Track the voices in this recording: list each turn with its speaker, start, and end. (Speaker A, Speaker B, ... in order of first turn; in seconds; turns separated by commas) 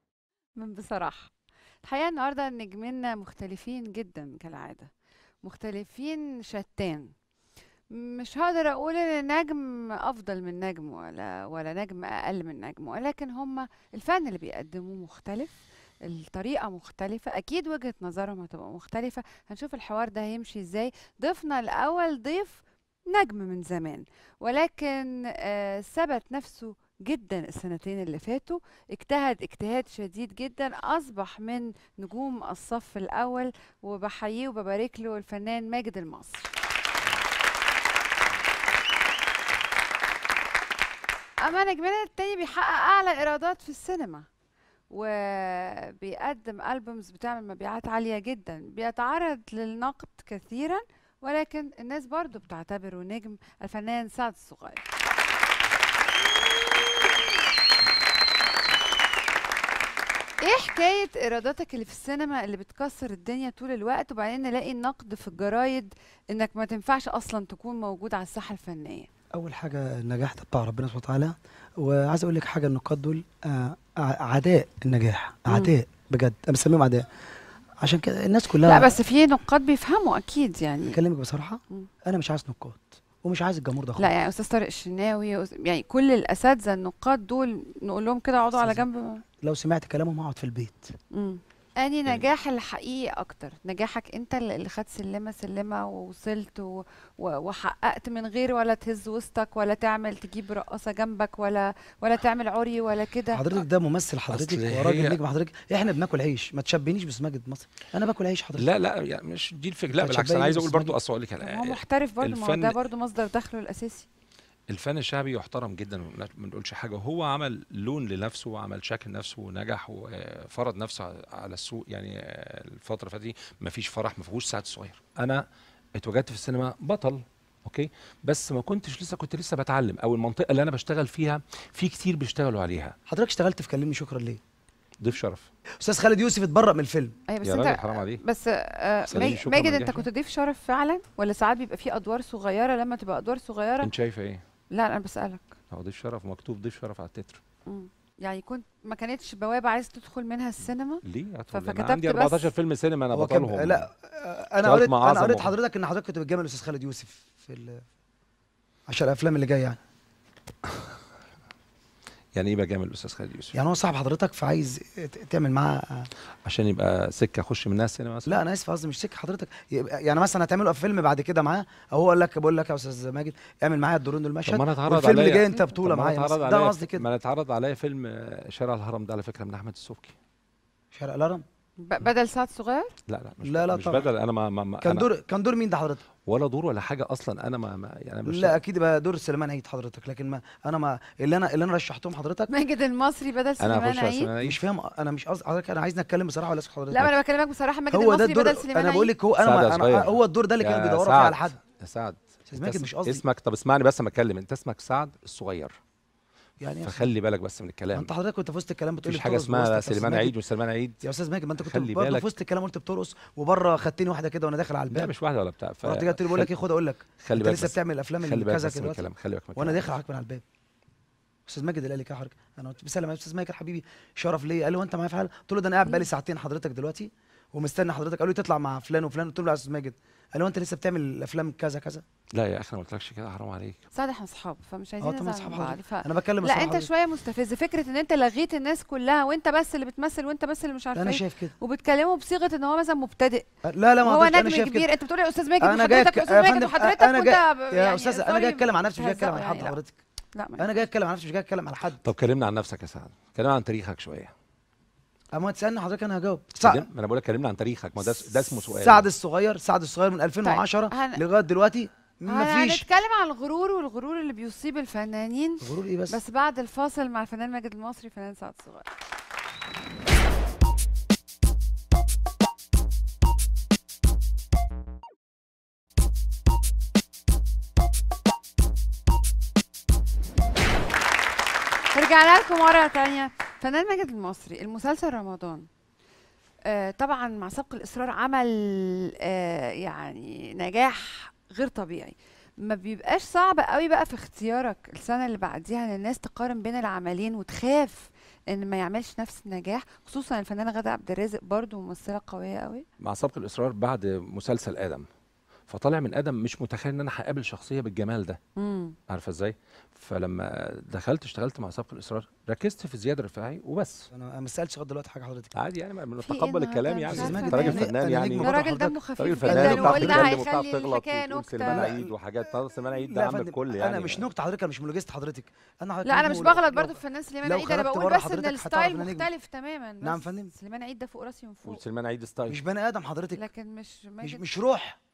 Speaker A: 0.6-1.3, Speaker A: 1.8-4.9, Speaker A: 5.4-7.1, Speaker A: 7.9-36.5, Speaker A: 41.4-44.3, Speaker A: 44.9-54.9, Speaker A: 60.4-69.1, Speaker B: 69.3-77.1, Speaker B: 77.8-78.9, Speaker A: 78.7-81.0, Speaker B: 80.8-84.1, Speaker A: 84.0-89.2, Speaker B: 88.6-88.8, Speaker B: 89.4-91.0, Speaker A: 91.1-103.6, Speaker B: 103.3-108.7, Speaker C: 104.3-105.2, Speaker C: 108.6-112.8, Speaker B: 109.9-111.0, Speaker A: 111.4-114.1, Speaker C: 114.7-125.5, Speaker C: 126.0-133.0, Speaker B: 133.1-134.4, Speaker C: 135.0-135.5, Speaker B: 135.8-137.2, Speaker A: 137.3-143.9, Speaker C: 137.4-138.2, Speaker C: 139.1-140.1, Speaker C: 143.8-144.4, Speaker A: 144.7-145.5, Speaker C: 145.7-147.4, Speaker A: 147.7-152.5, Speaker C: 151.0-153.9, Speaker B: 153.1-157.9, Speaker C: 154.6-155.5, Speaker B: 158.9-159.8, Speaker C: 162.3-163.6, Speaker B: 163.5-166.1, Speaker C: 166.4-168.4, Speaker B: 168.3-177.1, Speaker C: 174.5-180.2, Speaker B: 180.9-181.4, Speaker A: 181.8-182.9, Speaker C: 183.1-185.1, Speaker B: 183.4-184.1, Speaker B: 184.8-186.0, Speaker C: 186.2-188.6, Speaker B: 188.3-192.5, Speaker A: 192.5-194.3, Speaker C: 193.6-194.6, Speaker B: 194.4-197.2, Speaker A: 196.9-199.1, Speaker B: 197.9-201.6, Speaker C: 199.4-205.8, Speaker B: 202.5-203.2, Speaker B: 206.6-207.1, Speaker C: 206.8-208.1, Speaker B: 207.9-210.4, Speaker C: 209.0-211.0, Speaker B: 211.0-215.1, Speaker C: 211.6-212.3, Speaker C: 214.9-216.5, Speaker B: 215.8-220.4, Speaker C: 217.2-219.9, Speaker B: 221.5-232.0, Speaker C: 232.3-233.9, Speaker A: 233.9-243.5, Speaker B: 235.0-236.9, Speaker B: 240.9-241.5, Speaker B: 243.6-244.9, Speaker A: 244.0-249.8, Speaker B: 245.6-250.0, Speaker A: 250.3-250.8, Speaker B: 250.6-252.0, Speaker C: 252.0-254.3, Speaker B: 255.3-256.9, Speaker C: 256.6-259.1, Speaker B: 258.0-262.9, Speaker A: 260.4-261.2, Speaker A: 262.3-268.9, Speaker B: 265.6-266.2, Speaker A: 281.9-285.7, Speaker A: 286.6-302.9, Speaker C: 303.0-305.1, Speaker C: 305.7-308.4, Speaker A: 308.6-309.0, Speaker C: 309.1-314.1, Speaker B: 314.1-315.5, Speaker C: 315.6-318.6, Speaker A: 316.2-321.9, Speaker B: 317.1-320.5, Speaker C: 319.2-324.2, Speaker B: 321.7-322.1, Speaker B: 323.1-329.3, Speaker A: 326.0-331.8, Speaker B: 330.0-330.5, Speaker C: 331.7-332.6, Speaker B: 332.5-333.4, Speaker A: 333.4-334.4, Speaker B: 334.2-335.0